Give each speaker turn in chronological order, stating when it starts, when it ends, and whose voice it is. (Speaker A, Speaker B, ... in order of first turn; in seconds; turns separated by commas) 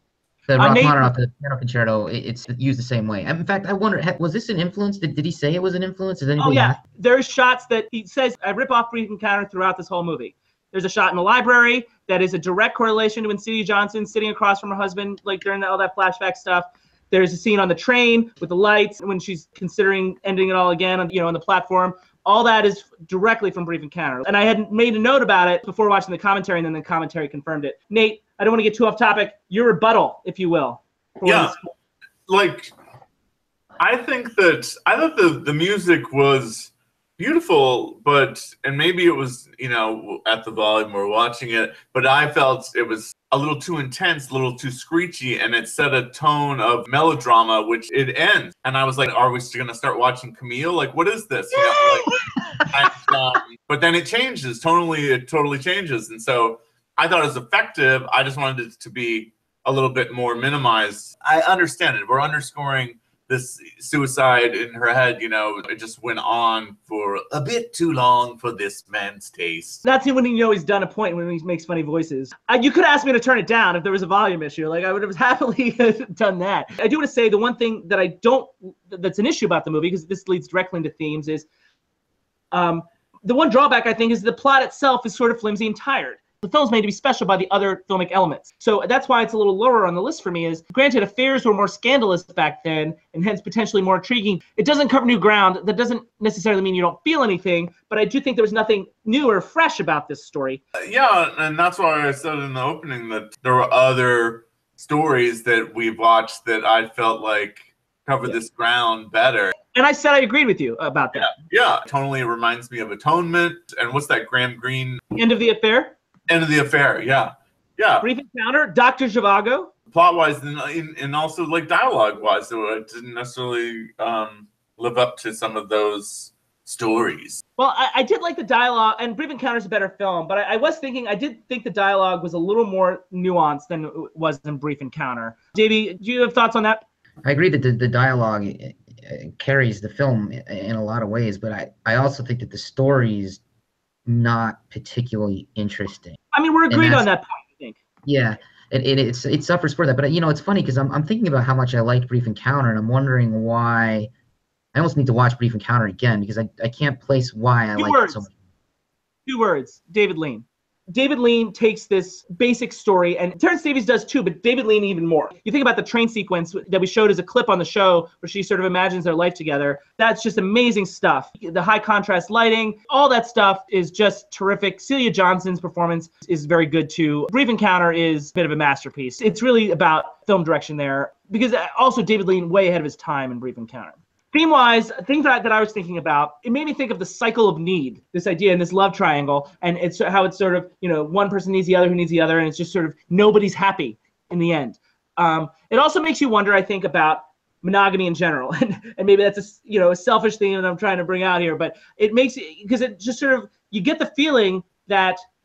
Speaker A: 0.5-6.8, Speaker B: 0.6-1.1, Speaker B: 6.4-31.7, Speaker C: 31.2-31.6, Speaker C: 32.3-32.7, Speaker C: 33.8-69.8, Speaker B: 69.8-81.5, Speaker B: 82.5-100.6, Speaker C: 100.8-109.5, Speaker B: 109.7-111.3, Speaker C: 111.2-115.0, Speaker B: 115.2-116.0, Speaker C: 116.3-118.1, Speaker B: 118.0-119.7, Speaker C: 119.9-127.4, Speaker B: 127.6-136.8, Speaker A: 137.2-143.4, Speaker A: 144.1-146.2, Speaker B: 146.3-147.8, Speaker A: 146.7-147.1, Speaker A: 148.1-154.1, Speaker A: 154.7-158.3, Speaker B: 157.8-158.2, Speaker B: 159.3-205.2